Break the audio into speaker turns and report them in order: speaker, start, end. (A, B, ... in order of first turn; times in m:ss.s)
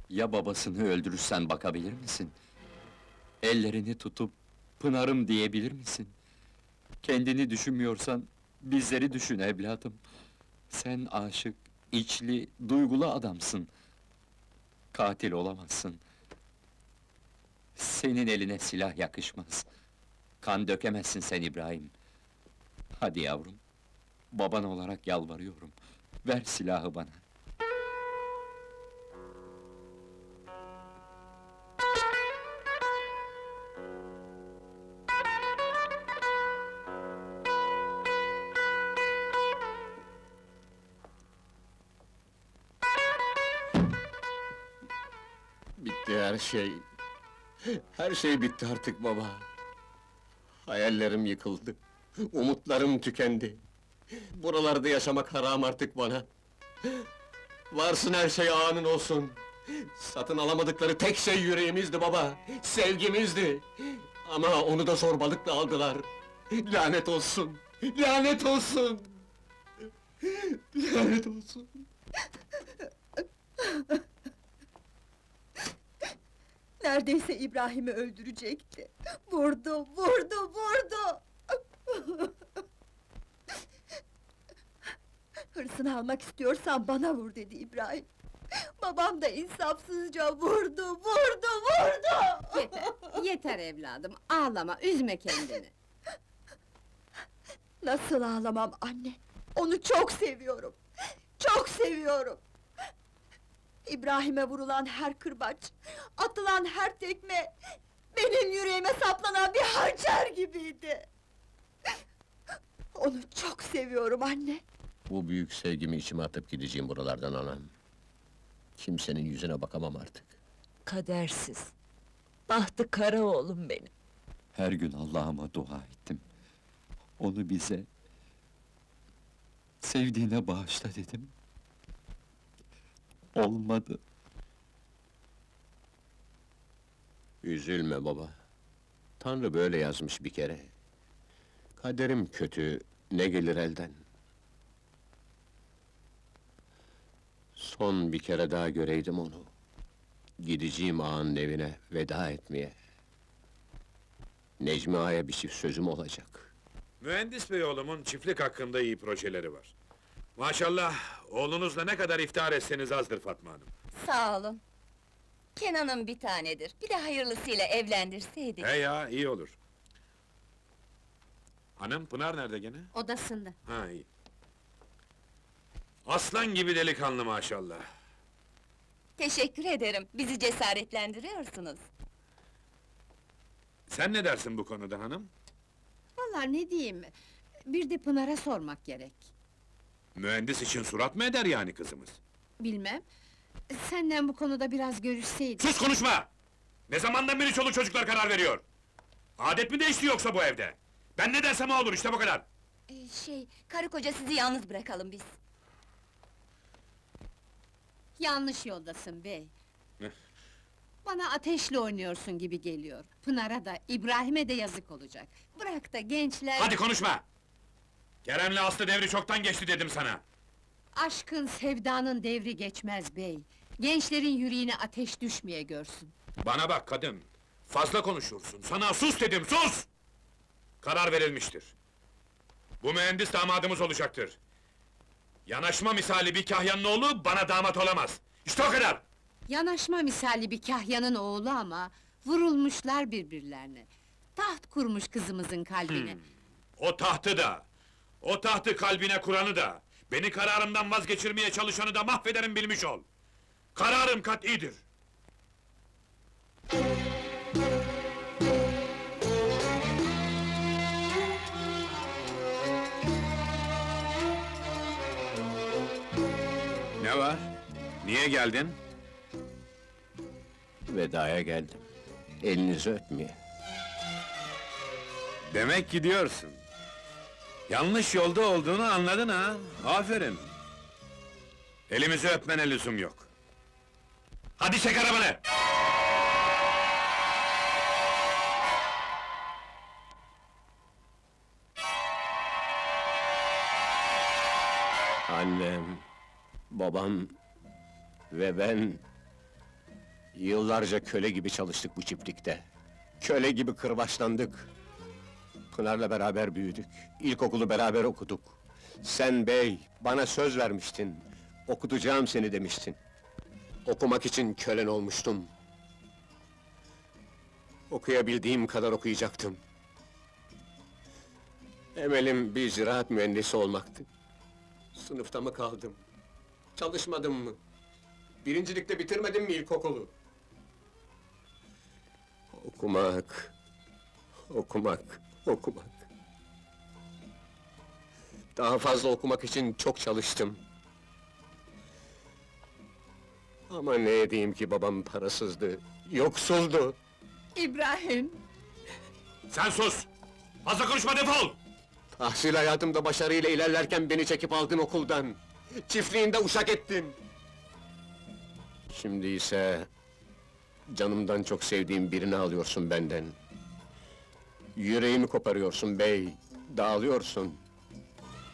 0:00.1-0:02.4 A
0:03.4-0:06.2 A
0:07.0-0:10.0 A
0:10.7-0:13.7 A
0:14.9-0:16.0 A
0:17.8-0:19.7 A
0:20.4-0:21.9 A
0:23.0-0:23.6 A
0:24.3-0:27.2 A
0:45.8-0:46.8 B
0:47.6-0:49.5 B
0:50.7-0:53.6 B
0:54.2-0:56.3 B
0:57.7-1:09.2 B
1:10.2-1:11.8 B
1:13.6-1:14.0 C
1:16.8-1:21.2 C
1:21.9-1:22.4 C
1:25.6-1:28.1 C
1:28.8-1:32.7 C
1:32.5-1:35.7 D
1:37.8-1:40.8 C
1:41.4-1:42.4 C
1:43.9-1:47.5 C
1:48.1-1:51.1 C
1:53.0-1:54.6 C
1:55.1-1:57.7 B
1:58.8-2:00.4 B
2:00.9-2:01.7 E
2:02.5-2:03.9 E
2:04.6-2:06.2 A
2:07.2-2:07.9 A
2:09.8-2:11.3 A
2:13.4-2:14.0 A
2:17.4-2:18.4 B
2:19.2-2:20.7 B
2:21.8-2:24.0 B
2:27.6-2:29.5 B
2:30.4-2:32.8 B
2:34.6-2:36.5 B
2:37.0-2:39.7 F
2:40.4-2:43.7 F
2:44.0-2:44.6 G
2:45.6-2:48.7 G
2:48.6-2:49.6 F
2:51.8-2:52.9 F
2:52.9-2:53.6 D
2:53.7-2:54.1 F
2:56.1-2:57.8 F
2:59.2-3:01.8 G
3:03.9-3:05.3 F
3:06.2-3:07.1 D
3:07.7-3:09.3 D
3:10.2-3:12.2 F
3:12.6-3:13.0 D
3:13.7-3:15.7 D
3:15.6-3:16.3 F
3:16.9-3:18.6 F
3:19.4-3:22.4 F
3:22.9-3:25.3 G
3:28.2-3:29.5 D
3:31.0-3:36.8 D
3:36.6-3:37.2 F
3:38.2-3:40.2 F
3:40.9-3:46.1 D
3:46.4-3:49.9 F
3:50.8-3:51.7 F
3:52.8-3:54.4 F
3:55.5-3:59.0 F
3:59.5-4:06.2 D
4:05.9-4:06.2 F
4:06.8-4:07.6 F
4:08.2-4:13.0 F
4:13.8-4:14.8 F
4:27.0-4:27.5 F
4:28.0-4:28.8 F
4:30.9-4:31.8 B
4:32.4-4:33.4 B
4:35.5-4:36.6 F
4:37.7-4:40.5 F
4:41.9-4:43.3 F
4:44.6-4:45.4 F
4:55.3-4:56.0 B
4:56.7-4:57.4 B
4:58.3-4:59.0 B
5:00.3-5:02.7 B
5:03.2-5:04.7 B
5:05.7-5:13.0 B
5:13.8-5:15.5 B
5:17.9-5:19.6 B
5:22.0-5:24.1 B
5:25.0-5:26.0 B
5:26.8-5:27.6 B
5:28.4-5:30.1 B
5:32.5-5:33.5 B
5:34.5-5:36.0 B
5:38.6-5:40.6 B
5:43.7-5:47.0 B
5:47.6-5:48.4 D
5:49.5-5:50.1 F
5:50.6-5:51.6 F
5:52.2-5:57.2 B
5:58.9-5:59.9 B
6:00.9-6:03.4 B
6:04.8-6:07.6 B